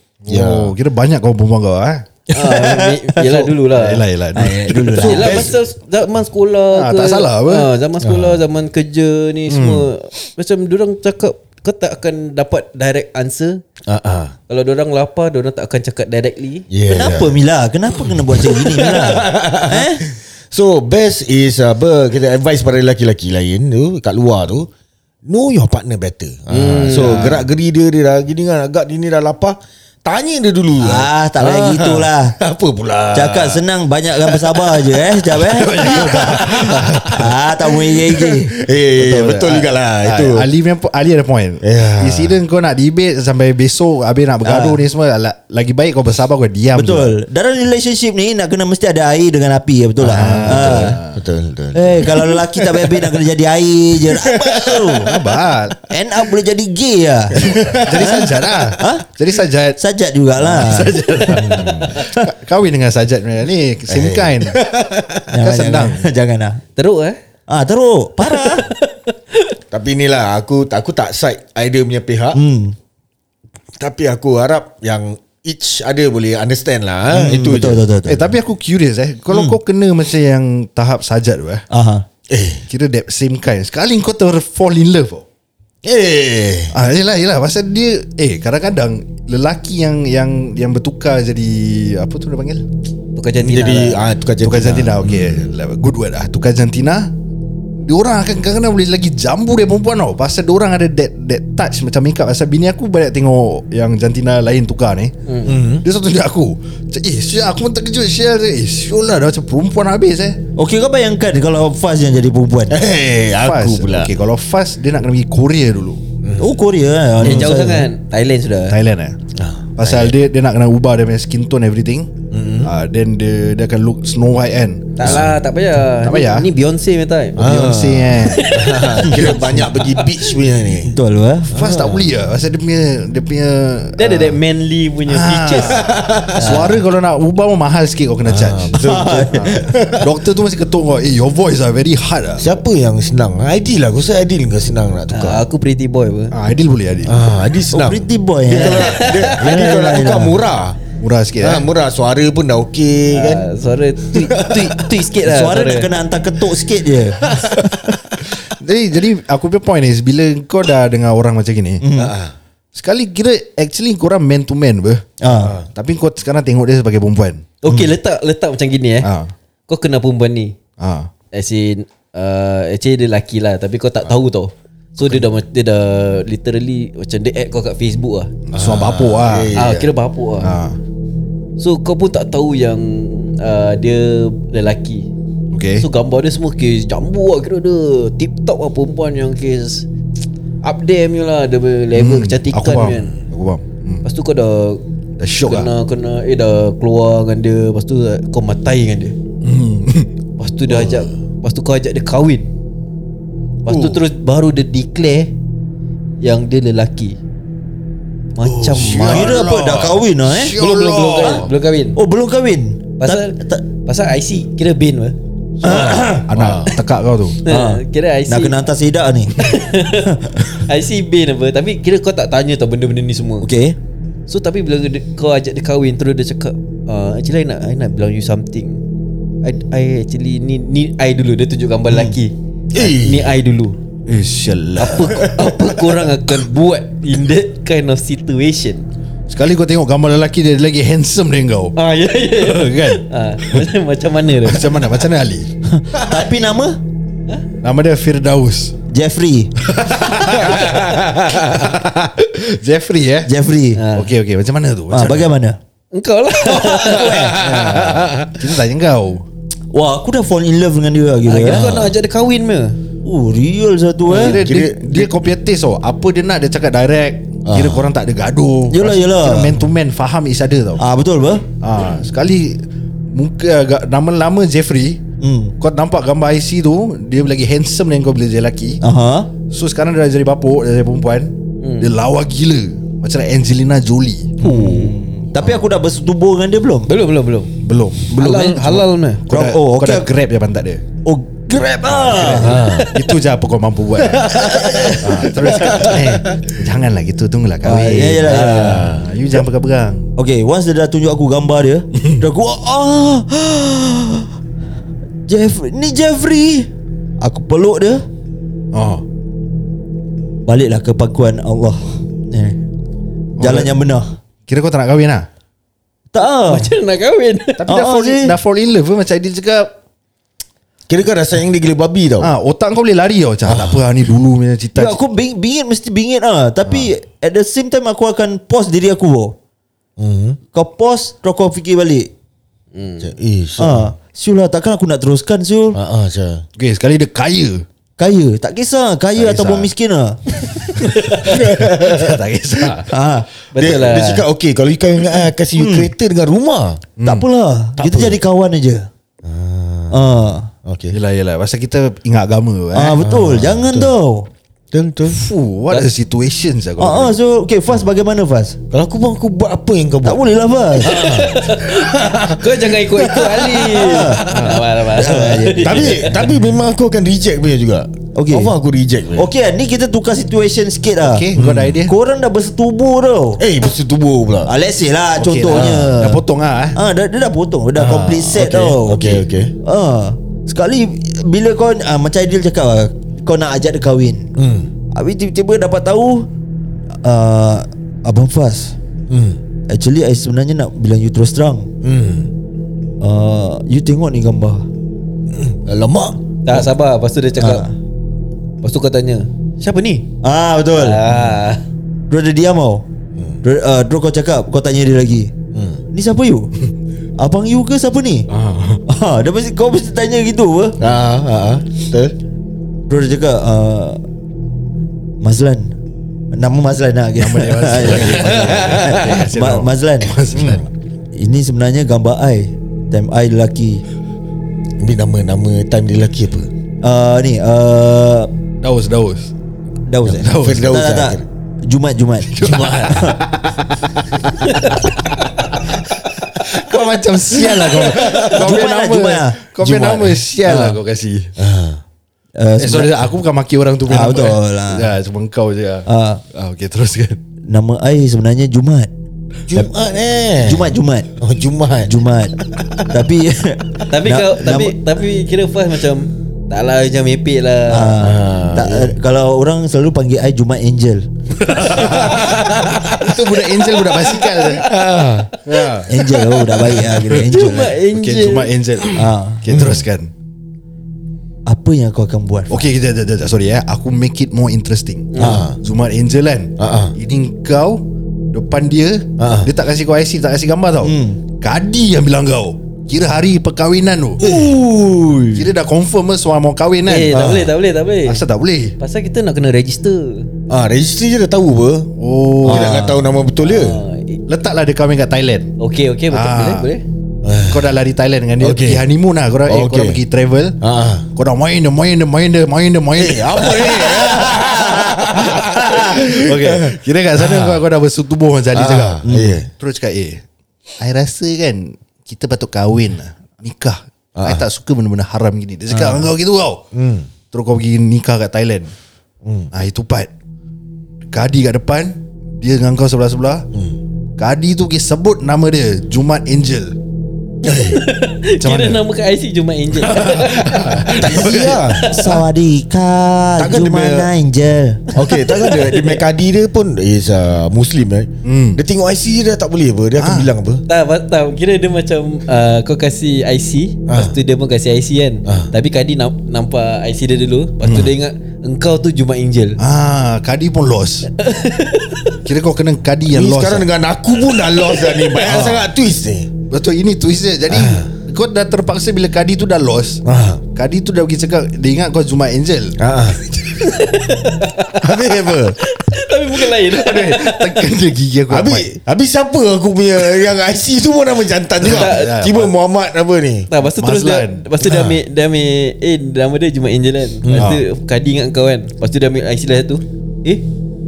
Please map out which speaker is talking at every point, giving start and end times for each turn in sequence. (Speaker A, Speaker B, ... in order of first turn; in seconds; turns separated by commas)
Speaker A: 0.2-2.1, Speaker B: 0.3-0.7, Speaker C: 2.3-4.0, Speaker D: 2.4-2.9, Speaker A: 3.2-5.4, Speaker D: 4.3-5.5, Speaker B: 4.7-5.5, Speaker C: 5.0-13.6, Speaker A: 6.7-7.7, Speaker B: 8.0-8.4, Speaker A: 9.5-9.9, Speaker B: 13.9-14.3, Speaker C: 14.5-16.6, Speaker B: 16.7-17.4, Speaker D: 16.9-20.0, Speaker B: 18.3-24.7, Speaker B: 25.3-33.6, Speaker C: 26.5-27.4, Speaker D: 30.8-32.4, Speaker D: 33.1-38.5, Speaker B: 34.2-34.8, Speaker A: 35.5-37.2, Speaker B: 35.7-37.2, Speaker B: 37.8-40.5, Speaker A: 39.0-47.1, Speaker B: 41.6-42.4, Speaker D: 44.4-44.8, Speaker D: 46.7-51.0, Speaker A: 50.0-51.2, Speaker B: 50.3-53.0, Speaker D: 51.7-55.2, Speaker B: 54.0-55.1, Speaker A: 55.0-55.8, Speaker D: 55.9-58.2, Speaker B: 57.3-58.7, Speaker A: 57.8-59.8, Speaker D: 58.8-59.0, Speaker D: 59.8-61.6, Speaker A: 60.4-64.5, Speaker B: 61.3-62.0, Speaker B: 63.9-65.2, Speaker D: 65.3-66.6, Speaker A: 65.4-66.0, Speaker C: 66.8-67.2, Speaker D: 67.5-68.7, Speaker C: 68.3-69.5, Speaker B: 69.7-72.4, Speaker D: 72.3-72.8, Speaker B: 73.8-77.8, Speaker D: 77.1-78.3, Speaker A: 78.0-81.6, Speaker D: 79.3-79.5, Speaker D: 81.7-82.0, Speaker B: 82.3-82.6, Speaker A: 82.7-85.2, Speaker B: 85.8-86.7, Speaker A: 86.7-92.6, Speaker C: 93.2-94.0, Speaker B: 93.4-95.5, Speaker A: 94.4-97.1, Speaker A: 97.8-105.1, Speaker C: 105.2-105.6, Speaker B: 105.4-105.8, Speaker A: 105.8-110.4, Speaker D: 110.6-112.8, Speaker B: 112.7-114.1, Speaker A: 113.4-116.0, Speaker B: 116.2-116.5, Speaker D: 116.4-117.9, Speaker C: 117.2-118.8, Speaker A: 118.7-119.2, Speaker B: 119.3-120.1, Speaker A: 119.8-122.1, Speaker B: 122.3-122.7, Speaker A: 122.6-125.2, Speaker C: 125.0-127.4, Speaker B: 125.0-125.3, Speaker A: 126.0-126.5, Speaker A: 127.4-128.5, Speaker B: 127.4-130.9, Speaker C: 128.3-129.2, Speaker D: 129.0-129.7, Speaker D: 130.8-131.5, Speaker B: 131.5-132.1, Speaker A: 131.5-134.4, Speaker C: 134.0-136.8, Speaker A: 135.1-142.6, Speaker B: 135.7-136.7, Speaker B: 138.2-140.1, Speaker D: 138.8-139.6, Speaker B: 142.4-145.4, Speaker C: 145.1-146.3, Speaker A: 146.3-147.1, Speaker B: 147.0-150.8, Speaker D: 147.7-150.4, Speaker C: 148.6-149.2, Speaker A: 151.0-151.7, Speaker B: 151.4-153.4, Speaker C: 153.1-155.9, Speaker B: 154.1-154.8, Speaker D: 155.2-157.7, Speaker B: 157.2-158.0, Speaker A: 158.6-161.8, Speaker D: 161.8-162.1, Speaker B: 161.9-162.3, Speaker A: 162.7-167.4, Speaker D: 165.2-165.6, Speaker B: 165.3-165.7, Speaker C: 167.6-169.1, Speaker D: 167.7-167.9, Speaker A: 169.0-169.3, Speaker C: 169.7-170.5, Speaker A: 170.8-171.1, Speaker C: 171.3-178.3, Speaker A: 175.0-175.3, Speaker A: 178.5-179.5, Speaker B: 178.5-179.9, Speaker C: 179.5-180.5, Speaker A: 180.4-180.8, Speaker C: 181.6-185.1, Speaker A: 185.5-185.9, Speaker C: 185.8-189.9, Speaker C: 190.6-193.1, Speaker A: 191.9-194.0, Speaker C: 194.0-194.8, Speaker A: 195.2-195.7, Speaker C: 195.4-199.2, Speaker A: 199.4-200.1, Speaker C: 200.4-202.5, Speaker B: 200.8-201.1, Speaker C: 203.6-205.3, Speaker B: 203.7-203.9, Speaker C: 206.2-207.2, Speaker C: 208.3-209.5, Speaker A: 208.4-211.5, Speaker D: 208.8-210.6, Speaker C: 210.6-212.0, Speaker D: 211.9-213.6, Speaker C: 213.0-215.2, Speaker D: 215.6-216.3, Speaker B: 215.6-216.8, Speaker A: 215.7-217.4, Speaker C: 217.4-218.6, Speaker D: 217.5-220.5, Speaker C: 219.4-223.5, Speaker D: 223.4-223.8, Speaker C: 224.3-228.8, Speaker C: 229.4-233.8, Speaker B: 232.7-233.3, Speaker A: 234.1-235.5, Speaker C: 234.8-238.8, Speaker B: 235.0-235.6, Speaker A: 239.3-241.7, Speaker C: 241.8-244.8, Speaker A: 242.4-243.6, Speaker A: 244.4-245.5, Speaker D: 245.7-246.8, Speaker A: 247.6-248.7, Speaker D: 248.9-249.5, Speaker A: 249.6-253.3, Speaker B: 250.4-251.6, Speaker D: 253.2-253.8, Speaker C: 253.8-254.1, Speaker A: 253.9-255.3, Speaker D: 254.9-255.6, Speaker C: 255.9-257.4, Speaker B: 256.7-258.3, Speaker A: 257.0-259.2, Speaker D: 259.7-261.7, Speaker C: 261.2-262.8, Speaker B: 261.4-261.9, Speaker D: 263.0-264.5, Speaker A: 264.1-270.8, Speaker B: 264.1-265.2, Speaker B: 267.4-267.8, Speaker D: 268.7-269.5, Speaker D: 270.8-271.4, Speaker A: 271.6-272.6, Speaker A: 273.1-275.0, Speaker D: 275.2-275.5, Speaker A: 275.6-278.8, Speaker D: 278.8-279.3, Speaker A: 279.5-285.6, Speaker C: 281.6-281.9, Speaker D: 284.4-286.9, Speaker C: 286.9-287.5, Speaker A: 287.6-290.8, Speaker D: 288.1-288.8, Speaker C: 288.1-289.2, Speaker D: 289.3-290.1, Speaker D: 291.0-292.6, Speaker A: 291.8-300.1, Speaker B: 292.3-292.9, Speaker C: 292.5-293.0, Speaker B: 294.0-296.4, Speaker D: 294.3-295.6, Speaker D: 297.6-298.9, Speaker C: 298.3-298.7, Speaker B: 298.4-299.1, Speaker D: 300.2-304.3, Speaker A: 302.0-302.2, Speaker D: 305.2-308.0, Speaker A: 308.7-309.0, Speaker D: 310.4-312.6, Speaker A: 313.4-313.7, Speaker D: 313.4-314.1, Speaker A: 314.5-315.3, Speaker D: 316.1-316.7, Speaker C: 316.4-317.6, Speaker A: 317.6-319.7, Speaker D: 317.7-318.4, Speaker B: 320.9-322.3, Speaker A: 322.2-325.0, Speaker B: 323.4-324.1, Speaker D: 324.7-329.4, Speaker A: 326.6-326.9, Speaker B: 330.0-330.4, Speaker D: 330.5-332.1, Speaker C: 332.7-333.1, Speaker B: 333.0-333.9, Speaker D: 333.6-335.8, Speaker B: 335.7-336.4, Speaker A: 336.6-337.6, Speaker D: 338.0-340.2, Speaker A: 339.1-339.7, Speaker C: 340.7-341.2, Speaker A: 340.8-342.9, Speaker B: 341.2-342.2, Speaker D: 342.9-343.3, Speaker C: 343.5-344.2, Speaker B: 343.6-346.9, Speaker D: 345.6-345.9, Speaker A: 347.0-347.2, Speaker D: 347.0-348.9, Speaker B: 347.8-348.2, Speaker B: 349.2-350.1, Speaker D: 349.9-350.5, Speaker B: 350.6-351.0, Speaker A: 350.9-353.0, Speaker D: 352.7-354.3, Speaker B: 353.0-353.9, Speaker B: 354.7-355.2, Speaker A: 355.1-357.1, Speaker D: 356.8-358.6, Speaker B: 358.7-360.2, Speaker D: 360.0-361.1, Speaker B: 360.8-363.6, Speaker C: 360.9-366.3, Speaker D: 363.6-364.4, Speaker A: 364.3-364.6, Speaker D: 364.9-366.4, Speaker B: 365.6-369.3, Speaker D: 368.1-368.5, Speaker D: 369.1-373.4, Speaker A: 371.0-371.9, Speaker B: 371.4-371.8, Speaker B: 373.4-374.5, Speaker D: 374.4-376.2, Speaker A: 375.1-376.8, Speaker B: 375.5-375.9, Speaker D: 376.7-384.3, Speaker B: 377.7-379.5, Speaker B: 384.4-384.7, Speaker D: 384.9-386.3, Speaker D: 387.0-388.7, Speaker B: 389.1-389.4, Speaker D: 389.7-391.7, Speaker B: 391.8-392.3, Speaker D: 393.0-394.7, Speaker B: 395.3-396.2, Speaker C: 396.4-397.6, Speaker D: 397.4-397.7, Speaker C: 398.6-400.1, Speaker D: 400.2-401.0, Speaker C: 400.8-401.6, Speaker D: 402.1-402.9, Speaker D: 403.4-405.3, Speaker B: 405.5-405.8, Speaker D: 405.9-406.5, Speaker D: 407.2-408.3, Speaker A: 408.3-408.8, Speaker D: 408.9-410.8, Speaker B: 410.8-412.1, Speaker D: 412.9-414.0, Speaker D: 415.2-415.7, Speaker D: 416.3-420.2, Speaker A: 417.2-420.7, Speaker B: 417.9-419.1, Speaker B: 420.3-420.6, Speaker D: 421.1-423.8, Speaker B: 424.8-426.5, Speaker D: 426.8-428.3, Speaker A: 428.6-429.3, Speaker D: 429.9-433.2, Speaker A: 430.1-430.7, Speaker B: 430.2-431.2, Speaker A: 432.3-435.0, Speaker A: 435.5-441.3, Speaker B: 437.5-438.4, Speaker D: 438.2-440.8, Speaker B: 441.4-441.8, Speaker D: 442.4-443.1, Speaker A: 442.6-447.2, Speaker D: 443.8-444.9, Speaker D: 445.9-446.2, Speaker D: 447.4-448.9, Speaker B: 449.5-451.9, Speaker D: 450.4-451.1, Speaker D: 451.9-452.4, Speaker D: 452.9-454.8, Speaker C: 453.9-458.0, Speaker D: 457.7-461.9, Speaker B: 458.0-458.9, Speaker A: 461.4-462.4, Speaker B: 461.7-463.2, Speaker A: 462.9-464.7, Speaker B: 464.5-465.3, Speaker A: 465.4-466.0, Speaker D: 465.8-467.8, Speaker A: 466.7-470.1, Speaker C: 467.1-468.6, Speaker B: 468.8-469.8, Speaker D: 468.9-469.4, Speaker D: 471.4-472.7, Speaker A: 472.5-484.2, Speaker C: 475.1-475.4, Speaker B: 475.2-475.6, Speaker B: 476.6-476.9, Speaker B: 479.2-479.5, Speaker D: 480.8-481.2, Speaker B: 484.2-485.4, Speaker A: 485.3-487.2, Speaker C: 486.9-488.2, Speaker B: 487.1-487.5, Speaker A: 488.1-488.8, Speaker C: 488.8-490.3, Speaker B: 490.5-491.9, Speaker A: 492.0-492.9, Speaker D: 492.4-493.0, Speaker B: 492.4-493.8, Speaker C: 493.4-494.2, Speaker A: 494.3-495.5, Speaker C: 495.6-496.8, Speaker A: 496.1-496.7, Speaker B: 497.2-497.8, Speaker A: 497.5-500.6, Speaker B: 498.4-498.8, Speaker B: 499.4-500.0, Speaker B: 500.6-501.1, Speaker A: 501.1-504.3, Speaker B: 502.9-507.6, Speaker D: 504.0-505.9, Speaker A: 505.1-509.0, Speaker B: 508.5-509.5, Speaker D: 509.0-509.4, Speaker A: 509.6-510.2, Speaker A: 510.8-516.6, Speaker B: 514.1-514.5, Speaker D: 515.7-516.1, Speaker B: 516.7-517.1, Speaker A: 517.3-518.7, Speaker B: 519.2-519.5, Speaker A: 519.5-520.1, Speaker A: 521.1-523.5, Speaker B: 523.5-523.8, Speaker A: 524.2-526.8, Speaker B: 527.4-527.8, Speaker C: 527.5-531.2, Speaker A: 528.4-528.8, Speaker A: 529.8-531.9, Speaker B: 531.0-532.1, Speaker C: 531.8-532.1, Speaker D: 531.9-534.8, Speaker B: 533.4-534.1, Speaker B: 534.9-540.6, Speaker C: 535.0-536.0, Speaker A: 538.2-538.6, Speaker A: 540.0-540.3, Speaker C: 540.7-549.6, Speaker B: 543.9-544.1, Speaker B: 545.2-545.5, Speaker A: 549.6-551.1, Speaker C: 551.1-552.2, Speaker A: 552.2-553.7, Speaker B: 553.0-556.3, Speaker C: 554.5-555.2, Speaker A: 555.2-555.7, Speaker A: 556.5-560.0, Speaker B: 557.5-557.9, Speaker B: 560.0-560.4, Speaker A: 560.5-562.8, Speaker B: 562.8-563.3, Speaker C: 563.6-567.7, Speaker B: 564.8-565.6, Speaker A: 566.7-568.7, Speaker B: 568.3-573.5, Speaker A: 571.6-572.5, Speaker C: 571.6-572.1, Speaker C: 573.5-580.4, Speaker A: 573.8-574.4, Speaker B: 574.6-575.0, Speaker B: 577.2-577.6, Speaker A: 577.4-577.6